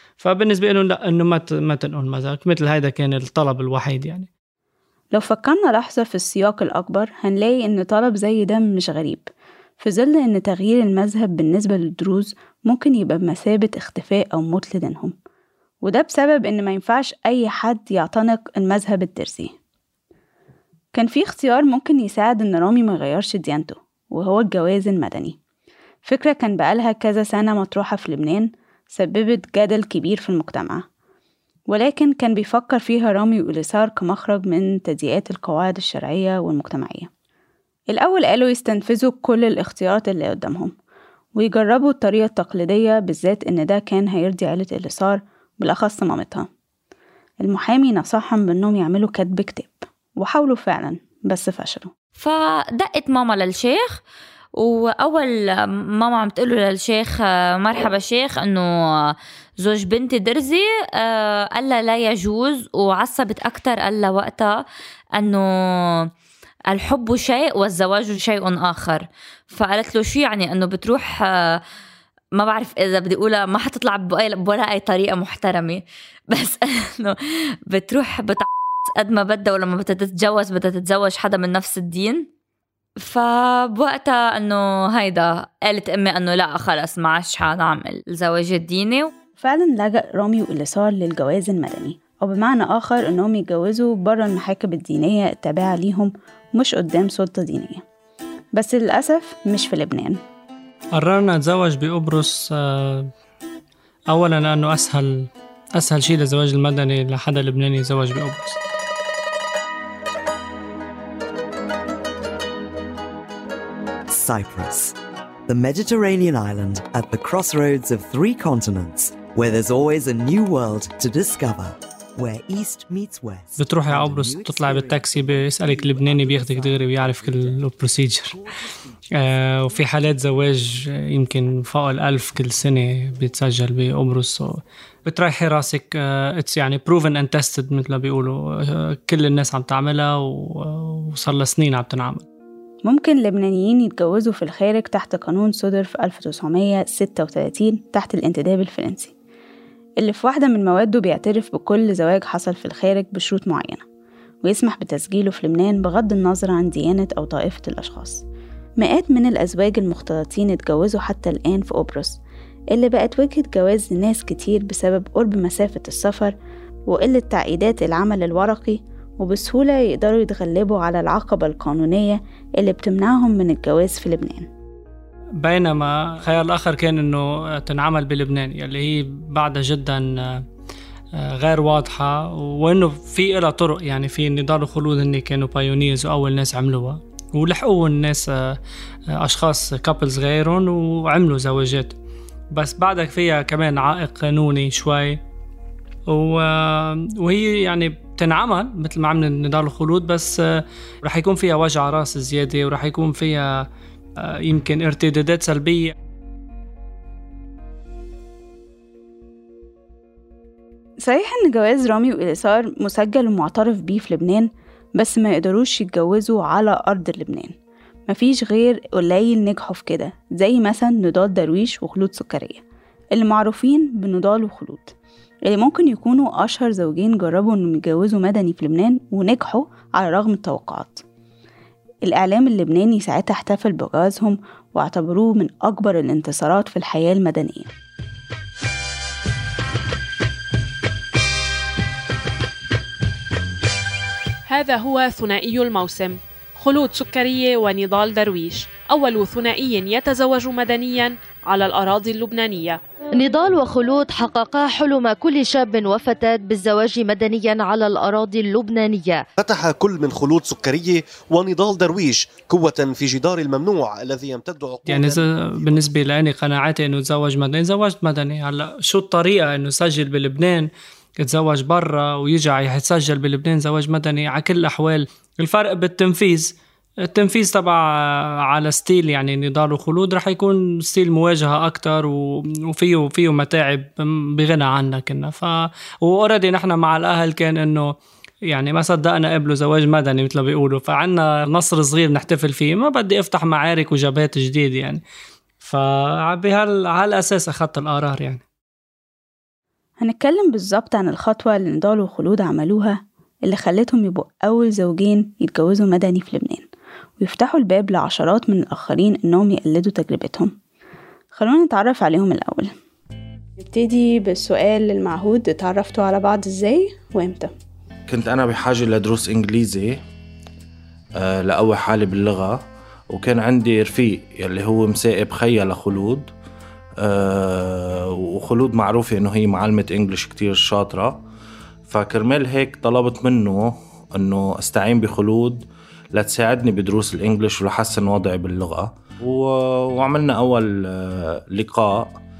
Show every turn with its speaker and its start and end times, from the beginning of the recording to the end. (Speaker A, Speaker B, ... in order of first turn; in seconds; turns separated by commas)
Speaker A: 0.2-4.3, Speaker B: 5.1-9.3, Speaker B: 9.8-15.2, Speaker B: 15.8-19.5, Speaker B: 20.9-25.4, Speaker B: 26.0-30.9, Speaker B: 31.7-37.1, Speaker B: 37.9-40.7, Speaker B: 41.3-46.5, Speaker B: 47.4-51.9, Speaker C: 52.2-54.0, Speaker C: 54.6-58.7, Speaker C: 59.6-64.5, Speaker C: 65.2-65.4, Speaker C: 66.7-71.6, Speaker C: 72.4-77.2, Speaker C: 77.7-82.3, Speaker C: 83.0-89.1, Speaker B: 89.4-97.8, Speaker B: 98.5-100.2, Speaker A: 101.0-103.1, Speaker A: 104.1-108.6, Speaker D: 114.1-114.9, Speaker D: 115.5-128.8, Speaker A: 123.6-128.4, Speaker A: 129.2-142.2, Speaker B: 142.8-149.1, Speaker B: 150.0-153.8, Speaker B: 154.4-158.2, Speaker B: 158.8-162.2, Speaker B: 162.7-166.3, Speaker B: 166.9-174.5, Speaker A: 175.4-180.4, Speaker A: 181.2-188.6, Speaker A: 189.2-191.9, Speaker A: 192.5-195.2, Speaker A: 196.1-203.6, Speaker A: 204.2-205.9, Speaker B: 211.0-217.5, Speaker B: 218.1-222.6, Speaker B: 223.1-224.9, Speaker B: 225.4-231.0, Speaker B: 232.0-237.7, Speaker E: 244.5-252.8, Speaker F: 253.2-259.2, Speaker G: 259.4-265.8, Speaker A: 264.9-270.7, Speaker A: 271.2-276.5, Speaker A: 277.1-287.9, Speaker A: 288.5-295.0, Speaker A: 295.6-298.4, Speaker B: 300.0-306.7, Speaker B: 307.2-310.5, Speaker B: 311.3-312.7, Speaker B: 313.6-317.5, Speaker H: 318.1-320.0, Speaker H: 321.2-326.3, Speaker H: 327.0-331.2, Speaker H: 331.9-342.2